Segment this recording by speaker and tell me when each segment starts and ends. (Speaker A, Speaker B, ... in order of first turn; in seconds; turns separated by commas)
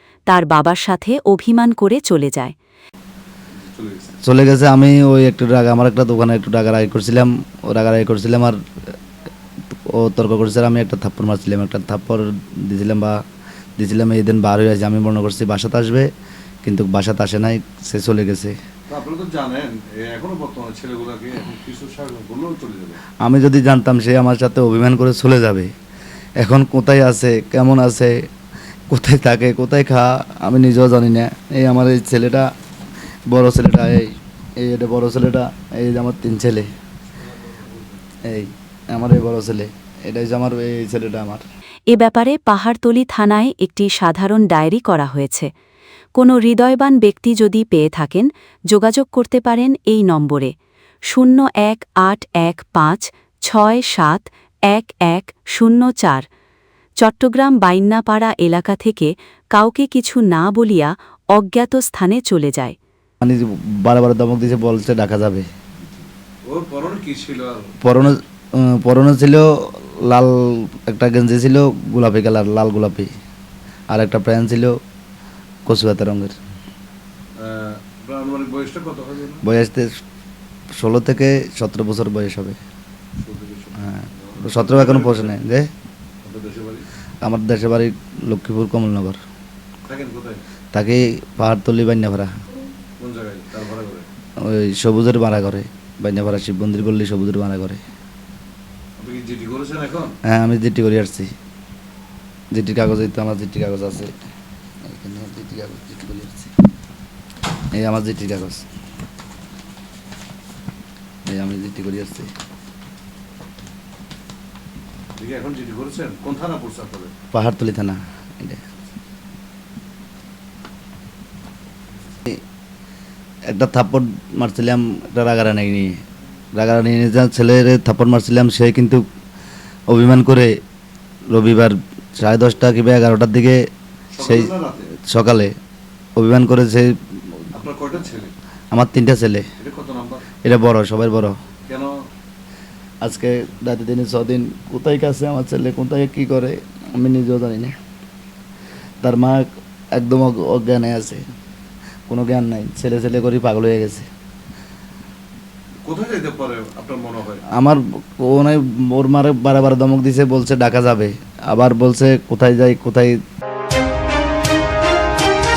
Speaker A: 0.3-2.5, Speaker B: 3.6-4.1, Speaker C: 4.2-8.6, Speaker C: 9.7-13.2, Speaker C: 13.8-16.1, Speaker C: 16.6-18.6, Speaker B: 18.9-23.0, Speaker C: 23.2-25.7, Speaker C: 26.4-28.2, Speaker C: 28.9-32.5, Speaker C: 33.3-36.7, Speaker C: 38.2-41.4, Speaker A: 41.9-45.5, Speaker A: 46.1-50.5, Speaker A: 51.1-56.2, Speaker A: 57.0-62.8, Speaker C: 63.2-65.5, Speaker B: 66.5-68.2, Speaker C: 67.8-73.1, Speaker C: 73.9-74.8, Speaker C: 75.7-76.4, Speaker B: 77.4-79.4, Speaker C: 79.4-80.0, Speaker C: 80.8-82.6, Speaker B: 83.2-85.4, Speaker C: 83.8-85.7, Speaker B: 86.2-86.9, Speaker C: 87.2-89.2, Speaker B: 89.8-90.4, Speaker C: 90.7-92.3, Speaker B: 93.0-94.1, Speaker C: 94.4-97.8, Speaker B: 99.0-100.1, Speaker C: 100.2-101.3, Speaker C: 102.5-104.1, Speaker C: 104.8-106.5, Speaker C: 107.8-108.7, Speaker C: 111.3-112.3, Speaker B: 115.2-117.1, Speaker C: 117.3-118.6, Speaker C: 123.5-126.0, Speaker C: 126.5-129.0, Speaker C: 129.9-130.5, Speaker C: 131.3-133.7, Speaker B: 134.1-134.9, Speaker C: 134.2-134.5, Speaker C: 135.0-135.5, Speaker C: 136.2-137.0, Speaker B: 137.5-138.3, Speaker C: 138.7-139.5, Speaker B: 139.6-140.3, Speaker C: 140.4-141.4, Speaker B: 141.7-142.0, Speaker C: 143.0-147.8, Speaker C: 149.0-151.2, Speaker C: 152.1-154.1, Speaker B: 155.8-157.4, Speaker C: 157.5-163.2